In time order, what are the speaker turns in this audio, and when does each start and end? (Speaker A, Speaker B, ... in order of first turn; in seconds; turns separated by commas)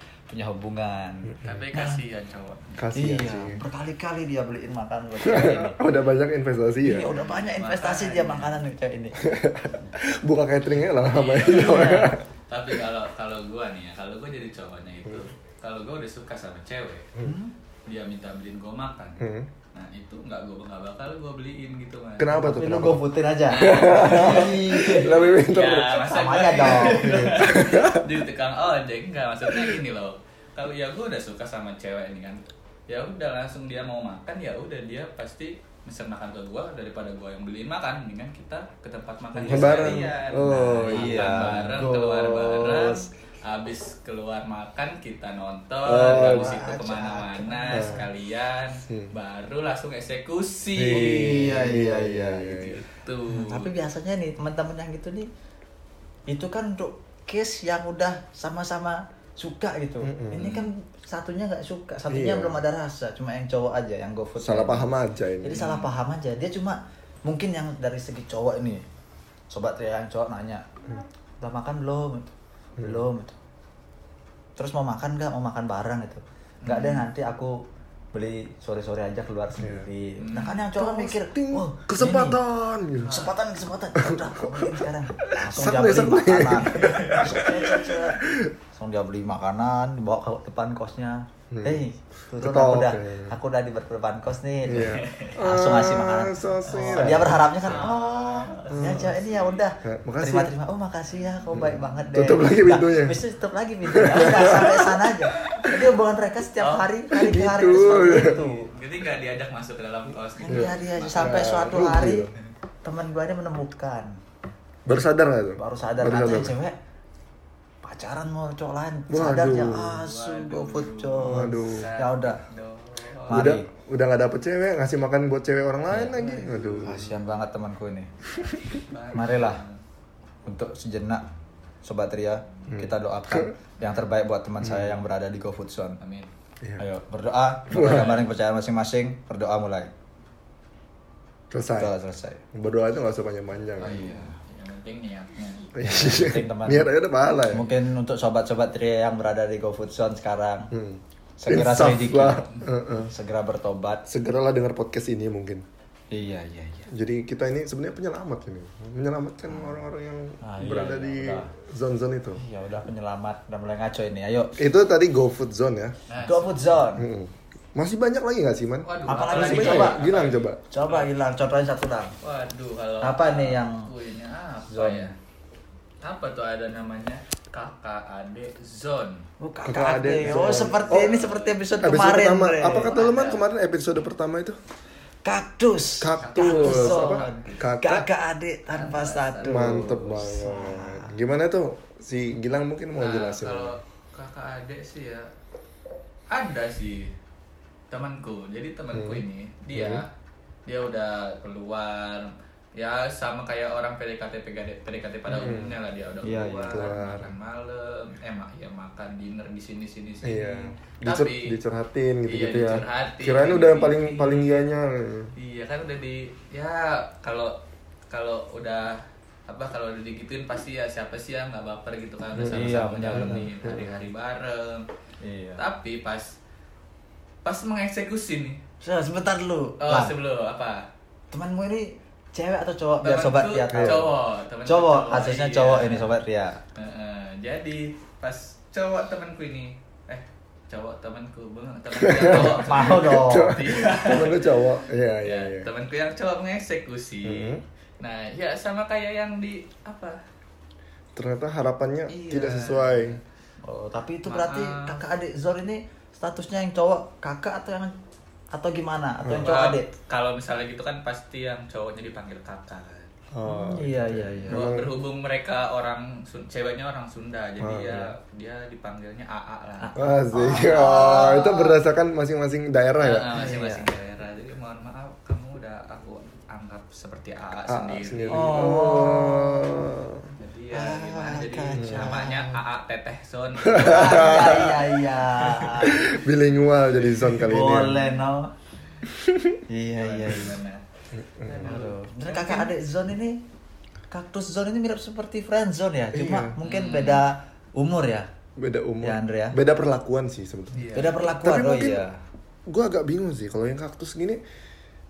Speaker A: 0.3-2.0, Speaker B: 1.4-2.8, Speaker C: 2.8-3.6, Speaker A: 2.9-5.8, Speaker C: 5.2-7.1, Speaker A: 6.8-9.2, Speaker B: 7.0-8.6, Speaker C: 9.2-12.2, Speaker B: 11.1-17.1, Speaker A: 11.5-12.1, Speaker A: 17.2-17.5, Speaker B: 17.9-22.6, Speaker C: 19.2-19.5, Speaker C: 22.2-26.1, Speaker A: 22.4-25.1, Speaker B: 23.5-51.6, Speaker A: 26.0-27.3, Speaker C: 26.8-28.1, Speaker C: 29.4-29.8, Speaker A: 39.3-42.9, Speaker C: 39.5-43.0, Speaker C: 45.8-46.6, Speaker A: 45.9-48.1, Speaker C: 47.7-48.1, Speaker C: 48.9-49.1, Speaker C: 50.7-52.8, Speaker A: 50.9-52.7, Speaker B: 52.5-53.7, Speaker A: 53.3-55.3, Speaker A: 56.3-64.9, Speaker C: 60.0-60.6, Speaker C: 62.1-62.6, Speaker C: 64.4-65.8, Speaker A: 65.4-68.8, Speaker A: 69.5-70.7, Speaker A: 71.4-73.4, Speaker C: 72.8-73.0, Speaker A: 74.5-77.6, Speaker B: 76.6-77.0, Speaker A: 78.1-82.4, Speaker C: 79.6-79.9, Speaker B: 80.2-80.6, Speaker C: 80.7-83.3, Speaker A: 83.0-108.7, Speaker B: 83.0-83.3, Speaker C: 84.0-88.5, Speaker B: 86.8-87.2, Speaker C: 91.5-91.8, Speaker C: 92.3-93.3, Speaker C: 94.6-97.8, Speaker B: 94.8-95.3, Speaker B: 96.7-99.6, Speaker C: 98.7-99.1, Speaker C: 99.8-100.5, Speaker C: 101.5-103.2, Speaker C: 103.9-105.8, Speaker B: 106.6-106.9, Speaker C: 107.1-108.4, Speaker B: 108.0-111.6, Speaker A: 110.4-112.3, Speaker C: 110.5-112.3, Speaker A: 112.8-114.2, Speaker C: 114.8-116.5, Speaker A: 115.6-116.8, Speaker A: 117.8-122.4, Speaker C: 119.1-120.0, Speaker B: 120.0-123.5, Speaker C: 121.2-121.9, Speaker A: 123.3-123.7, Speaker C: 123.3-127.1, Speaker B: 125.9-127.1, Speaker A: 126.8-128.1, Speaker B: 128.3-129.8, Speaker A: 129.1-129.6, Speaker A: 130.4-131.2, Speaker A: 131.8-136.0, Speaker C: 132.7-133.5, Speaker C: 134.6-135.0, Speaker B: 136.0-136.3, Speaker A: 136.8-139.9, Speaker C: 137.7-138.2, Speaker B: 137.8-138.2, Speaker C: 141.5-141.9, Speaker A: 141.8-142.4, Speaker C: 142.5-144.1, Speaker B: 143.8-145.7, Speaker A: 143.8-144.3, Speaker C: 145.7-147.7, Speaker A: 145.8-146.9, Speaker A: 147.5-150.7, Speaker C: 150.7-153.1, Speaker A: 151.4-154.0, Speaker C: 154.1-155.6, Speaker A: 156.1-156.9, Speaker C: 156.9-162.4, Speaker A: 159.5-159.8, Speaker A: 160.4-161.5, Speaker A: 162.4-164.6, Speaker C: 164.6-165.9, Speaker B: 166.1-166.6, Speaker A: 166.2-167.1, Speaker C: 166.9-170.6, Speaker B: 168.8-171.1, Speaker A: 169.1-170.0, Speaker A: 170.7-172.2, Speaker B: 172.2-175.1, Speaker A: 173.0-173.9, Speaker A: 174.7-175.1, Speaker B: 176.0-179.3, Speaker A: 179.4-182.9, Speaker C: 179.6-181.1, Speaker B: 180.3-181.7, Speaker C: 181.8-184.6, Speaker B: 182.8-183.4, Speaker A: 185.2-191.1, Speaker C: 186.0-188.1, Speaker B: 186.2-187.5, Speaker B: 188.7-190.2, Speaker C: 189.4-193.8, Speaker B: 193.0-195.3, Speaker B: 196.3-197.1, Speaker B: 197.9-200.1, Speaker C: 198.9-200.0, Speaker B: 200.7-211.6, Speaker C: 205.3-205.8, Speaker A: 206.2-206.8, Speaker C: 206.7-207.3, Speaker C: 210.2-215.3, Speaker B: 212.3-214.7, Speaker B: 215.4-217.6, Speaker B: 218.1-224.9, Speaker C: 222.3-224.0, Speaker A: 222.5-223.5, Speaker A: 225.2-225.6, Speaker B: 225.6-226.3, Speaker B: 227.4-228.6, Speaker A: 228.8-230.1, Speaker B: 229.8-230.9, Speaker A: 231.3-234.1, Speaker B: 233.0-236.1, Speaker C: 233.7-234.1, Speaker A: 234.6-236.6, Speaker B: 236.7-244.6, Speaker C: 241.9-245.7, Speaker A: 242.3-243.6, Speaker B: 245.2-250.2, Speaker C: 247.2-247.6, Speaker C: 251.2-253.2, Speaker B: 252.1-253.2, Speaker A: 253.6-257.9, Speaker B: 254.2-255.0, Speaker A: 258.5-259.9, Speaker C: 259.2-259.5, Speaker B: 259.4-263.1, Speaker C: 263.3-264.9, Speaker A: 263.4-264.6, Speaker B: 264.5-269.9, Speaker C: 267.6-268.1, Speaker A: 269.8-271.8, Speaker C: 269.9-273.4, Speaker B: 271.0-271.2, Speaker B: 273.0-278.6, Speaker A: 273.3-273.9, Speaker C: 277.7-280.3, Speaker A: 278.3-279.7, Speaker B: 280.4-284.9, Speaker A: 280.7-282.6, Speaker C: 281.8-282.2, Speaker C: 283.6-284.9, Speaker A: 283.7-286.0, Speaker C: 285.6-288.1, Speaker A: 287.4-288.5, Speaker C: 289.1-289.6, Speaker A: 289.7-290.6, Speaker B: 289.9-290.8, Speaker C: 291.1-291.9, Speaker B: 291.5-292.7, Speaker A: 291.6-293.4, Speaker A: 294.1-298.3, Speaker C: 296.1-296.5, Speaker B: 296.6-297.3, Speaker C: 298.6-302.0, Speaker A: 299.0-299.6, Speaker B: 300.7-301.3, Speaker A: 300.9-302.1, Speaker C: 302.7-304.4